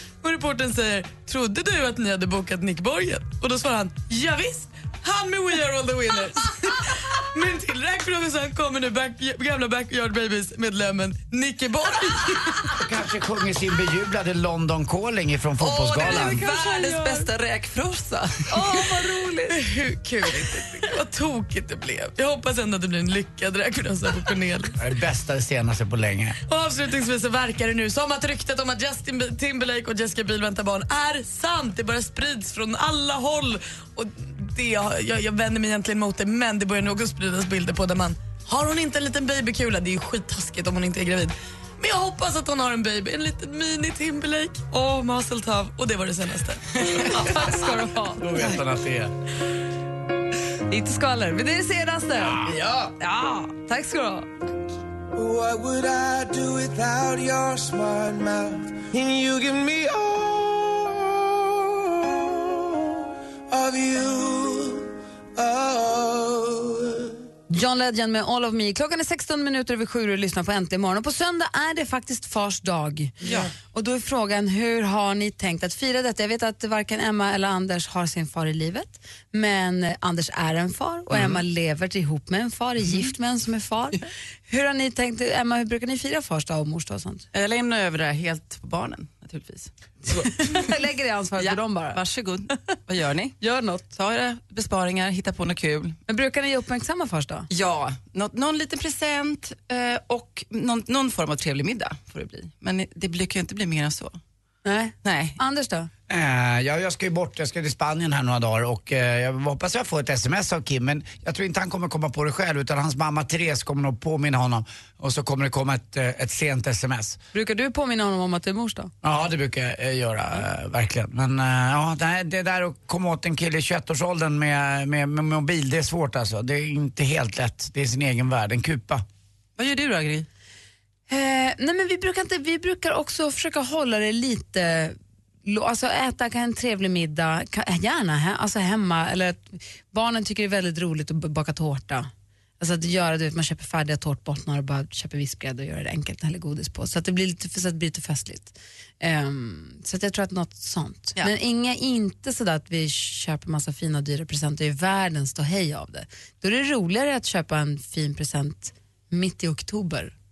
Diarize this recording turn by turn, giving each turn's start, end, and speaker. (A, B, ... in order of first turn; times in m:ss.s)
0:00.2-0:12.7 A
0:12.8-0:16.4 B
0:15.6-0:18.9 C
0:16.0-0:17.3 D
0:18.5-0:19.6 D
0:19.5-0:24.8 A
0:24.8-0:26.4 B
0:26.5-0:47.0 A
0:47.1-0:48.5 D
0:48.2-0:49.1 B
0:50.7-0:52.4 D
0:52.2-0:52.9 B
0:53.0-0:54.3 D
0:55.1-1:02.6 E
1:03.5-1:07.1 E
1:07.5-1:27.3 D
1:13.2-1:13.5 C
1:27.3-1:30.7 C
1:30.1-1:32.0 D
1:31.4-1:33.4 C
1:33.4-1:33.9 D
1:33.9-1:36.0 C
1:36.1-1:37.5 D
1:37.5-1:44.2 C
1:44.6-1:45.9 D
1:45.0-1:45.4 C
1:46.1-1:57.2 B
1:57.3-1:58.9 D
1:59.0-2:09.0 B
2:09.6-2:10.3 C
2:11.1-2:22.1 D
2:22.6-2:40.1 D